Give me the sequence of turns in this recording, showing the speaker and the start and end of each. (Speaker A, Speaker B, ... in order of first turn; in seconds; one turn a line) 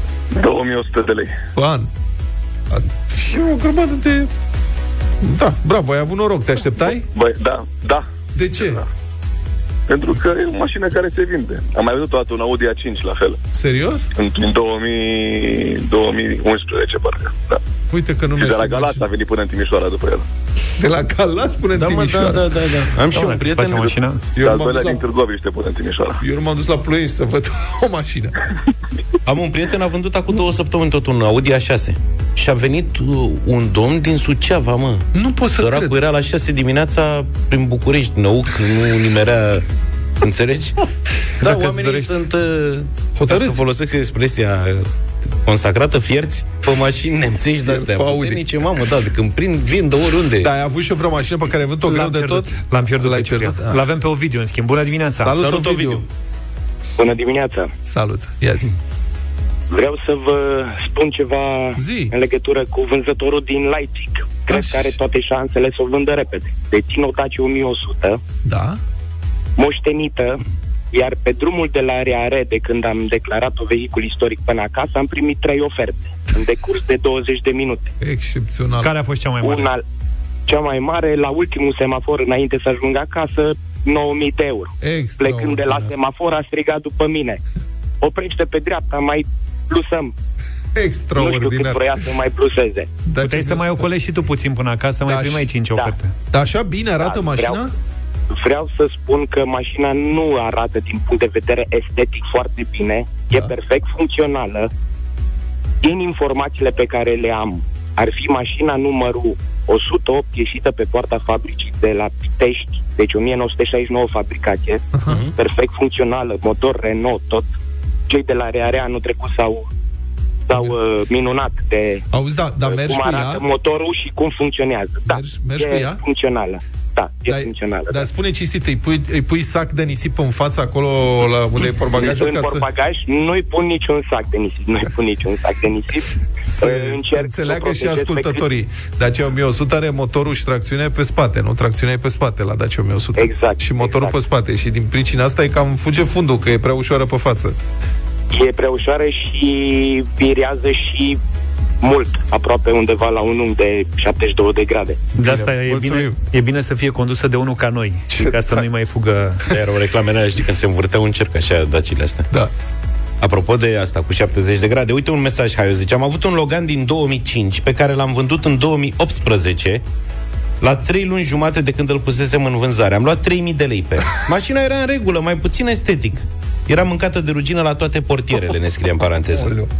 Speaker A: 0.3-1.3
Speaker B: 1.5-1.9
Speaker B: 2.7-4.3
Speaker B: 5.2-7.0
Speaker A: 7.1-8.0
Speaker B: 8.3-8.8
Speaker A: 9.9-13.4
Speaker B: 13.5-14.1
Speaker A: 14.1-17.6
Speaker B: 17.9-19.0
Speaker A: 18.4-20.2
Speaker B: 20.8-22.6
Speaker C: 21.8-23.9
Speaker D: 23.1-24.2
Speaker B: 24.4-25.0
Speaker A: 24.4-26.2
Speaker B: 26.2-28.3
Speaker C: 29.2-39.6
Speaker B: 35.1-36.0
Speaker C: 40.2-40.8
Speaker C: 41.4-44.9
Speaker D: 41.4-42.1
Speaker B: 43.2-43.6
Speaker C: 45.4-50.5
Speaker B: 47.6-48.6
Speaker B: 50.4-53.8
Speaker D: 51.9-55.4
Speaker B: 55.1-56.0
Speaker C: 55.4-56.0
Speaker E: 57.0-57.7
Speaker B: 57.9-58.7
Speaker E: 59.7-68.2
Speaker B: 61.8-62.1
Speaker B: 64.5-64.9
Speaker B: 68.4-68.8
Speaker E: 69.6-70.4
Speaker E: 70.9-77.9
Speaker B: 78.0-78.9
Speaker D: 78.8-79.7
Speaker E: 79.4-79.8
Speaker E: 80.5-87.4
Speaker B: 84.8-85.9
Speaker E: 88.0-90.1
Speaker B: 90.8-91.8
Speaker E: 91.1-92.9
Speaker B: 93.0-93.9
Speaker D: 93.2-96.1
Speaker B: 95.0-95.5
Speaker B: 96.3-97.7
Speaker E: 97.0-97.7
Speaker E: 98.3-104.7
Speaker E: 105.8-114.8
Speaker B: 114.9-115.2
Speaker C: 115.1-115.3
Speaker E: 115.4-117.5
Speaker E: 118.1-119.7
Speaker E: 120.5-122.0
Speaker B: 122.1-123.4
Speaker E: 122.6-128.1
Speaker B: 125.1-126.0
Speaker B: 127.3-132.6
Speaker E: 131.9-136.1
Speaker B: 136.5-147.6
Speaker E: 136.6-138.5
Speaker E: 143.2-144.2
Speaker E: 148.3-151.2
Speaker E: 151.8-155.1
Speaker B: 155.1-156.2
Speaker D: 155.2-159.4
Speaker B: 158.1-158.7
Speaker C: 159.5-162.3
Speaker C: 163.2-169.8
Speaker C: 170.6-179.5
Speaker B: 179.3-179.7